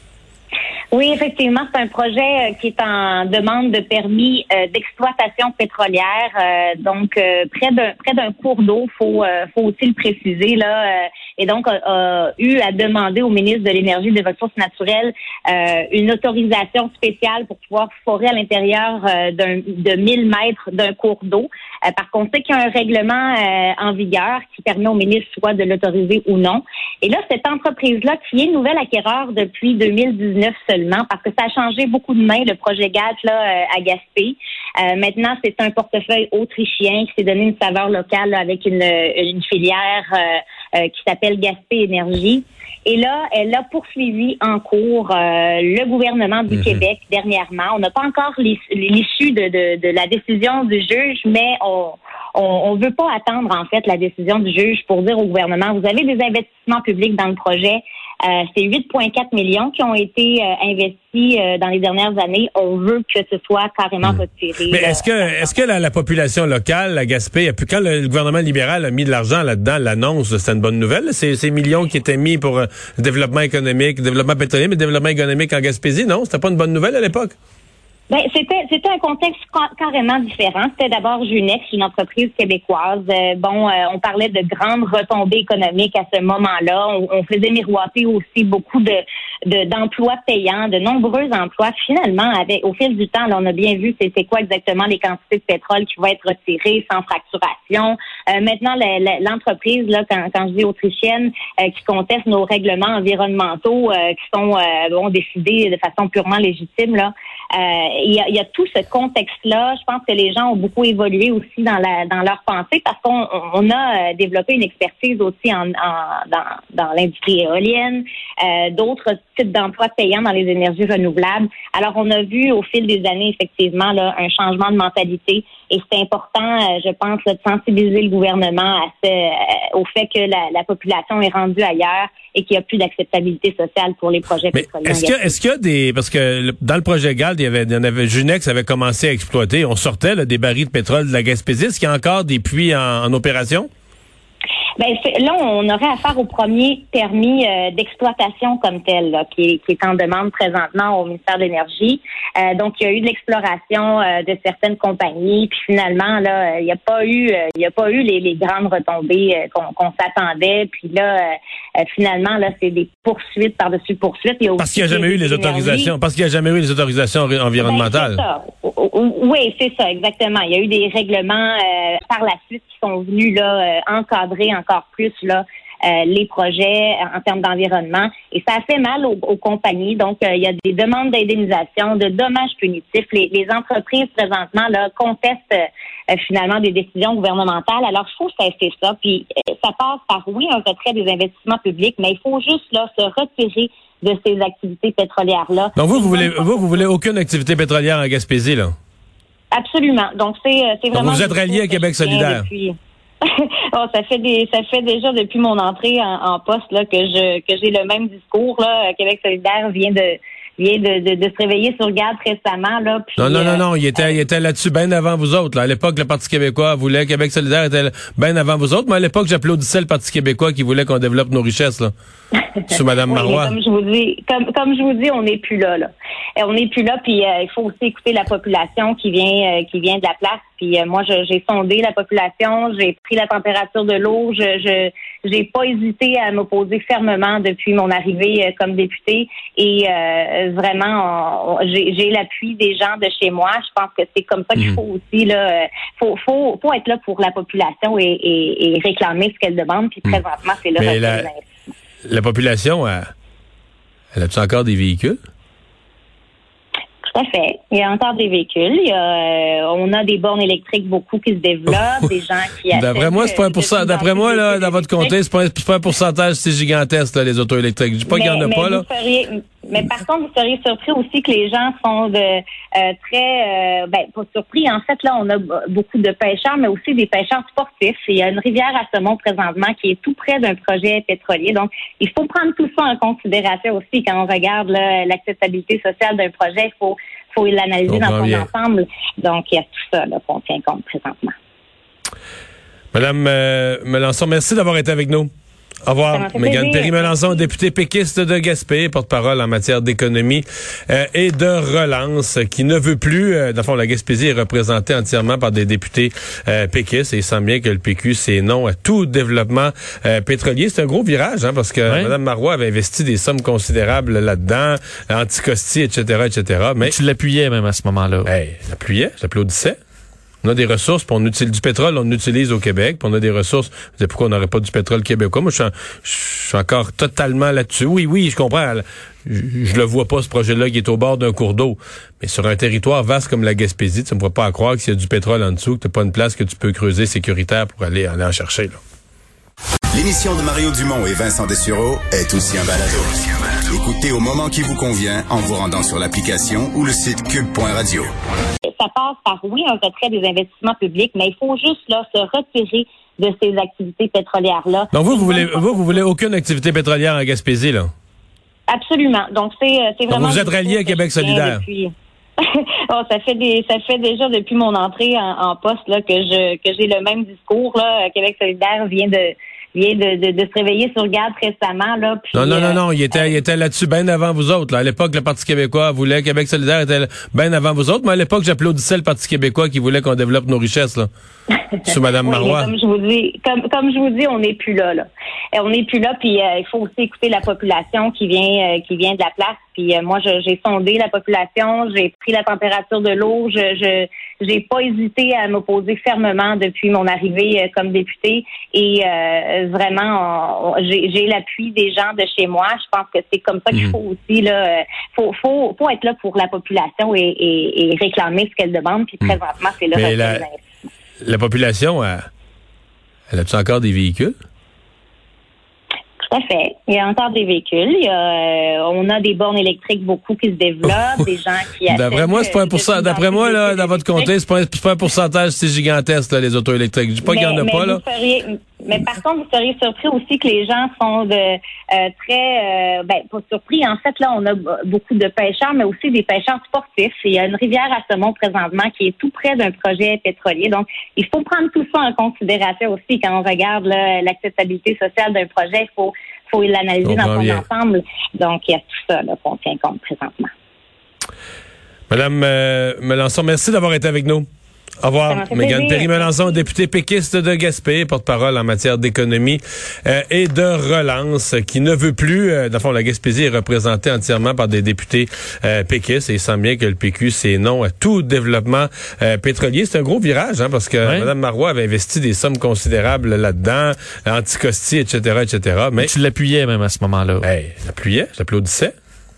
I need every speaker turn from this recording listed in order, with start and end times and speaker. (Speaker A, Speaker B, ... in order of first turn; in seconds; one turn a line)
Speaker A: 0.9-65.5
Speaker B: 46.5-46.8
Speaker B: 64.7-77.3
Speaker A: 78.1-135.3
Speaker B: 134.5-143.7
Speaker A: 144.8-161.3
Speaker A: 161.8-165.9
Speaker B: 164.6-168.2
Speaker A: 167.6-196.8
Speaker B: 195.8-198.7
Speaker A: 199.5-214.2
Speaker B: 200.9-202.5
Speaker B: 213.2-221.9
Speaker A: 222.6-251.4
Speaker B: 222.7-223.6
Speaker B: 250.8-251.3
Speaker B: 252.1-253.1
Speaker B: 254.1-255.2
Speaker A: 257.1-265.2
Speaker B: 262.7-268.9
Speaker A: 268.1-291.3
Speaker B: 287.9-288.5
Speaker B: 292.9-295.3
Speaker B: 295.9-316.9
Speaker A: 296.1-297.5
Speaker C: 311.9-312.1
Speaker C: 316.8-318.3
Speaker B: 318.2-319.8
Speaker B: 320.4-338.8
Speaker D: 339.9-348.1
Speaker A: 348.8-356.0
Speaker B: 354.9-357.9
Speaker A: 358.7-373.4
Speaker B: 360.1-361.6
Speaker B: 372.3-381.1
Speaker A: 381.8-410.6
Speaker B: 381.9-382.7
Speaker B: 409.9-410.4
Speaker B: 411.2-412.2
Speaker B: 413.3-414.3
Speaker A: 416.2-424.3
Speaker B: 421.9-428.0
Speaker A: 427.2-450.5
Speaker B: 447.0-447.6
Speaker B: 452.1-454.4
Speaker B: 455.0-476.1
Speaker A: 455.3-456.6
Speaker C: 471.0-471.3
Speaker C: 476.0-477.4
Speaker B: 477.4-478.9